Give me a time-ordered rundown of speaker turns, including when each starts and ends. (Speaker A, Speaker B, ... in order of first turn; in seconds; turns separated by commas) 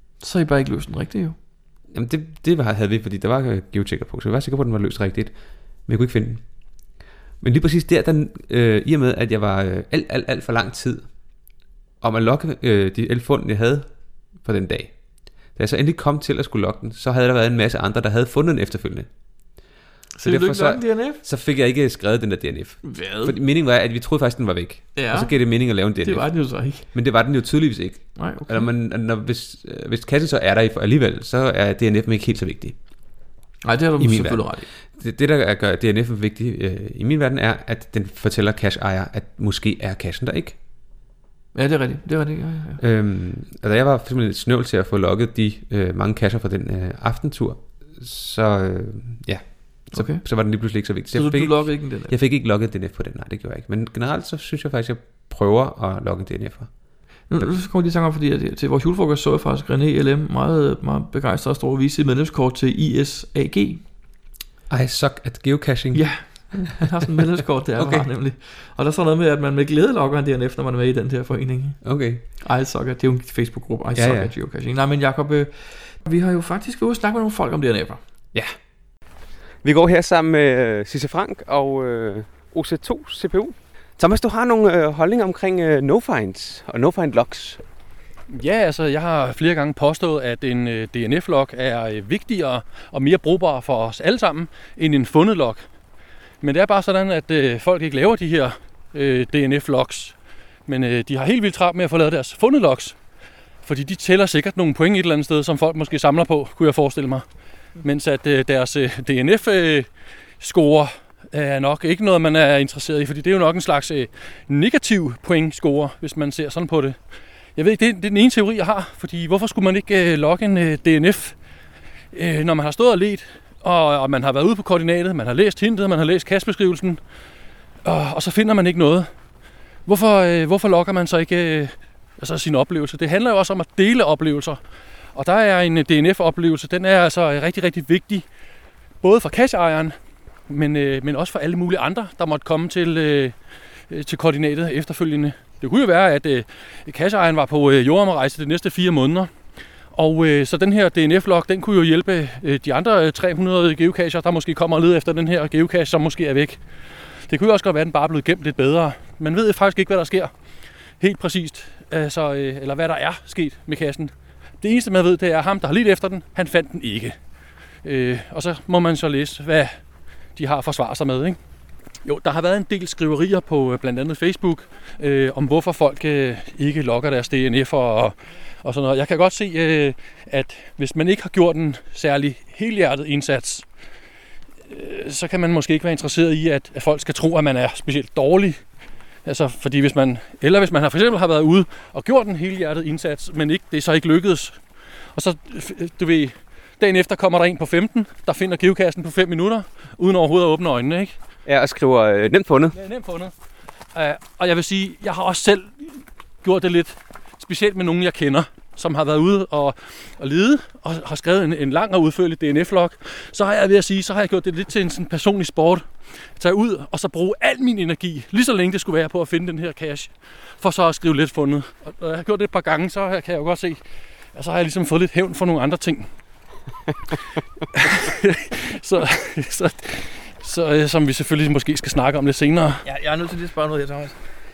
Speaker A: 0.2-1.4, Speaker B: 1.9-6.6, Speaker B: 7.4-11.1, Speaker B: 12.0-15.0, Speaker B: 15.5-19.1, Speaker A: 20.1-21.2, Speaker B: 20.2-32.8, Speaker A: 22.8-23.4, Speaker A: 24.9-26.9, Speaker A: 28.2-28.7, Speaker A: 33.6-34.7, Speaker B: 34.0-40.6, Speaker A: 41.5-42.8, Speaker B: 42.8-56.7, Speaker A: 49.9-50.3, Speaker A: 51.1-52.1, Speaker A: 57.3-63.9, Speaker B: 64.7-66.7, Speaker A: 65.9-78.0, Speaker B: 67.8-68.1, Speaker B: 71.8-72.2, Speaker B: 74.0-74.3, Speaker B: 79.6-87.6, Speaker C: 88.3-95.7, Speaker C: 96.4-100.2, Speaker C: 100.7-103.0, Speaker C: 103.6-107.2, Speaker C: 107.8-109.9, Speaker C: 110.4-117.0, Speaker C: 117.6-121.4, Speaker C: 122.1-127.0, Speaker C: 127.8-129.1, Speaker C: 129.9-134.6, Speaker C: 135.1-138.3, Speaker C: 139.0-140.0, Speaker C: 140.5-143.3, Speaker C: 143.9-149.3, Speaker C: 149.9-156.6, Speaker C: 157.3-160.3, Speaker C: 161.0-167.2, Speaker C: 167.8-169.8, Speaker C: 170.4-171.4, Speaker C: 172.1-183.7, Speaker C: 184.7-188.6, Speaker C: 189.2-194.6, Speaker C: 195.1-201.2, Speaker B: 201.5-202.8, Speaker C: 202.7-203.3, Speaker C: 203.9-223.8, Speaker C: 224.3-226.1, Speaker C: 227.8-232.8, Speaker A: 232.8-234.2